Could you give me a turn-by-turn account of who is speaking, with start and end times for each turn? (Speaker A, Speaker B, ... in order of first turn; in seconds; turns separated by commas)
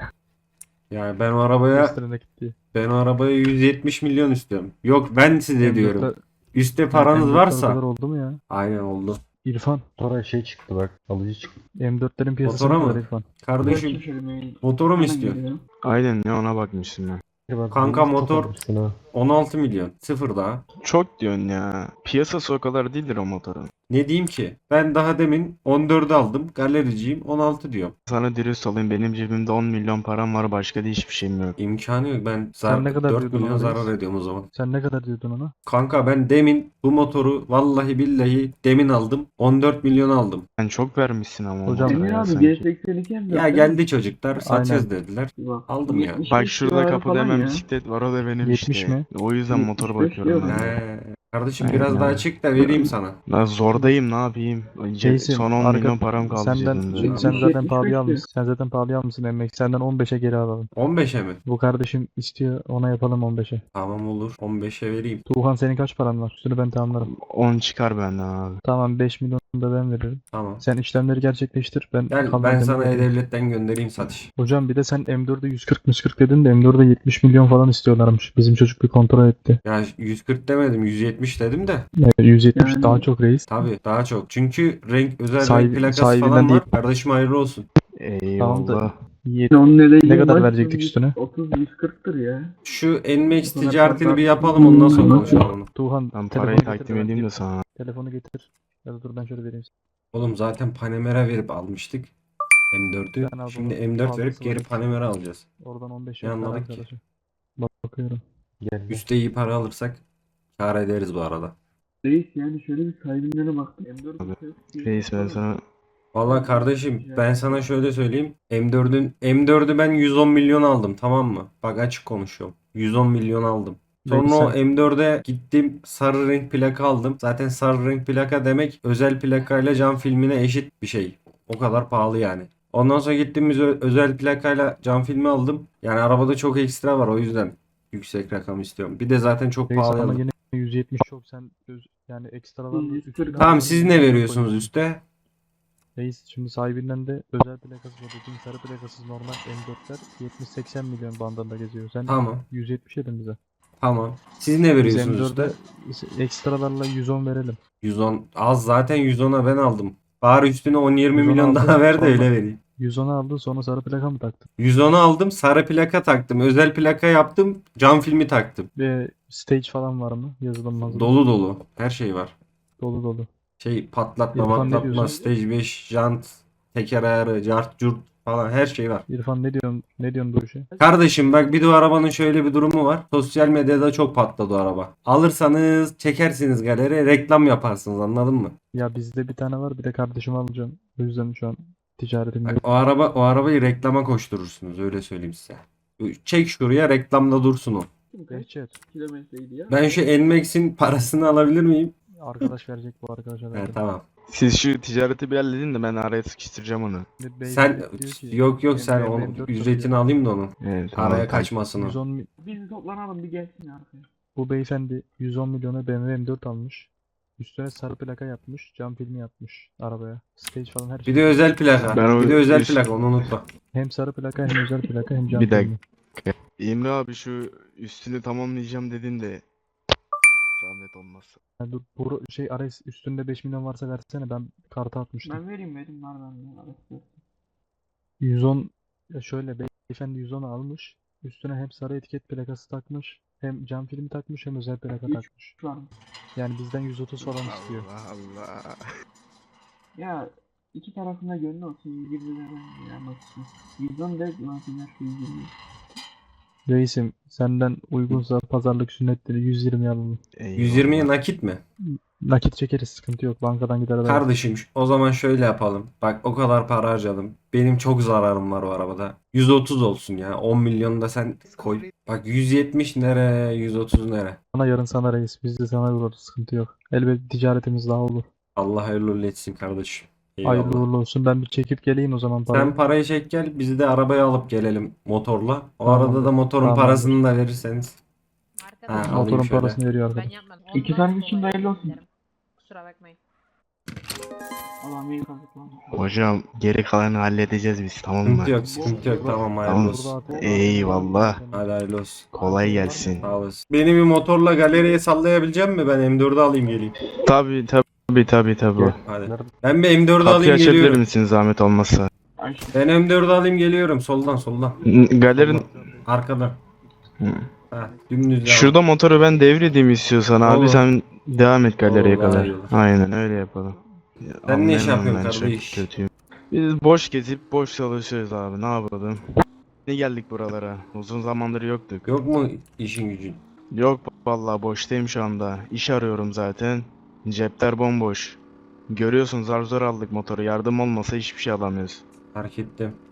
Speaker A: 0.9-2.0, Speaker B: 1.7-2.5, Speaker A: 2.7-7.8, Speaker B: 5.6-6.2, Speaker B: 6.9-8.4, Speaker A: 8.5-9.2, Speaker B: 9.4-9.9, Speaker C: 10.0-11.6, Speaker B: 11.8-13.2, Speaker A: 12.4-14.0, Speaker D: 13.6-15.6, Speaker A: 14.6-15.4, Speaker E: 15.8-17.2, Speaker C: 17.5-19.0, Speaker A: 17.7-18.5, Speaker A: 19.1-20.6, Speaker E: 20.8-23.7, Speaker A: 23.9-27.9, Speaker E: 28.1-31.6, Speaker A: 31.6-34.5, Speaker B: 32.6-33.9, Speaker B: 34.5-35.5, Speaker A: 35.7-40.5, Speaker E: 40.6-42.6, Speaker B: 41.7-42.5, Speaker D: 41.9-43.8, Speaker A: 43.3-46.2, Speaker B: 44.4-44.9, Speaker D: 45.4-47.7, Speaker E: 46.3-50.8, Speaker B: 48.4-49.1, Speaker D: 49.5-50.7, Speaker A: 50.5-53.2, Speaker E: 51.6-57.5, Speaker B: 55.0-60.7, Speaker D: 56.9-58.2, Speaker A: 60.8-61.4, Speaker B: 61.5-63.6, Speaker A: 63.7-65.2, Speaker B: 65.3-67.1, Speaker E: 67.0-68.6, Speaker B: 68.6-73.1, Speaker A: 70.3-70.6, Speaker A: 72.1-74.3, Speaker B: 74.4-79.6, Speaker A: 79.6-81.9, Speaker B: 82.0-83.5, Speaker D: 82.5-83.1, Speaker A: 83.5-87.7, Speaker B: 85.4-86.7, Speaker E: 88.0-88.9, Speaker B: 88.4-91.2, Speaker D: 89.5-92.6, Speaker A: 92.7-95.7, Speaker D: 93.3-95.5, Speaker B: 94.6-99.7, Speaker E: 96.1-97.6, Speaker A: 100.1-102.1, Speaker A: 102.7-105.5, Speaker B: 103.2-104.8, Speaker B: 105.6-107.0, Speaker A: 106.2-106.8, Speaker B: 107.6-108.2, Speaker C: 108.6-109.0, Speaker A: 108.9-110.0, Speaker A: 110.6-111.5, Speaker D: 112.0-115.4, Speaker E: 114.2-115.6, Speaker A: 116.1-140.2, Speaker D: 116.2-117.7, Speaker B: 124.0-124.6, Speaker B: 139.7-144.7, Speaker D: 142.7-144.1, Speaker A: 143.4-145.0, Speaker B: 146.0-153.4, Speaker A: 152.1-152.4, Speaker A: 153.8-155.6, Speaker B: 154.8-157.6, Speaker A: 157.8-162.6, Speaker B: 161.1-164.5, Speaker A: 164.6-168.7, Speaker B: 168.8-171.2, Speaker A: 170.8-172.3, Speaker B: 172.8-173.3, Speaker A: 173.6-179.1, Speaker B: 174.3-175.2, Speaker D: 174.5-175.3, Speaker B: 179.1-180.7, Speaker A: 180.8-188.6, Speaker B: 188.7-192.6, Speaker A: 192.4-197.9, Speaker D: 198.1-200.0, Speaker B: 198.3-198.8, Speaker A: 199.7-202.0, Speaker B: 202.2-203.8, Speaker A: 203.5-204.0, Speaker E: 204.3-207.1, Speaker B: 207.2-210.0, Speaker A: 207.5-212.0, Speaker E: 210.6-211.5, Speaker B: 211.7-212.3, Speaker D: 212.4-214.1, Speaker B: 214.4-222.0, Speaker A: 221.1-223.5, Speaker E: 221.9-222.9, Speaker B: 223.7-225.8, Speaker E: 225.3-229.4, Speaker E: 230.4-231.4, Speaker B: 231.6-235.4, Speaker D: 235.2-237.2, Speaker B: 238.2-245.6, Speaker D: 245.0-245.9, Speaker B: 246.3-247.9, Speaker E: 247.2-248.8, Speaker D: 249.9-255.6, Speaker B: 256.7-260.2, Speaker E: 260.4-261.1, Speaker A: 260.6-261.6, Speaker B: 261.9-264.3, Speaker A: 264.0-274.4, Speaker B: 274.5-278.3, Speaker A: 278.6-280.9, Speaker B: 280.4-282.7, Speaker A: 282.5-288.0, Speaker B: 285.9-287.2, Speaker F: 288.6-289.2, Speaker A: 288.9-289.8, Speaker B: 289.1-290.3, Speaker F: 290.1-292.1, Speaker D: 290.7-292.0, Speaker F: 292.6-293.2, Speaker D: 294.8-296.1, Speaker E: 295.9-298.5, Speaker A: 298.2-300.1, Speaker D: 298.6-299.7, Speaker B: 298.8-301.7, Speaker E: 299.6-301.4, Speaker D: 300.3-301.2, Speaker A: 301.5-302.3, Speaker E: 302.3-303.3, Speaker B: 302.4-303.3, Speaker A: 303.2-306.9, Speaker E: 307.2-309.0, Speaker B: 308.8-309.5, Speaker A: 309.0-311.0, Speaker E: 310.2-312.1, Speaker D: 312.4-312.8, Speaker A: 312.7-314.8, Speaker E: 314.9-315.7, Speaker A: 315.4-316.6, Speaker B: 315.4-316.0, Speaker E: 317.2-317.5, Speaker A: 317.7-318.8, Speaker E: 318.4-329.3, Speaker A: 320.4-320.9, Speaker A: 321.9-322.7, Speaker A: 324.5-325.9, Speaker E: 329.9-332.1, Speaker A: 332.1-333.4, Speaker E: 333.7-342.0, Speaker A: 342.3-343.0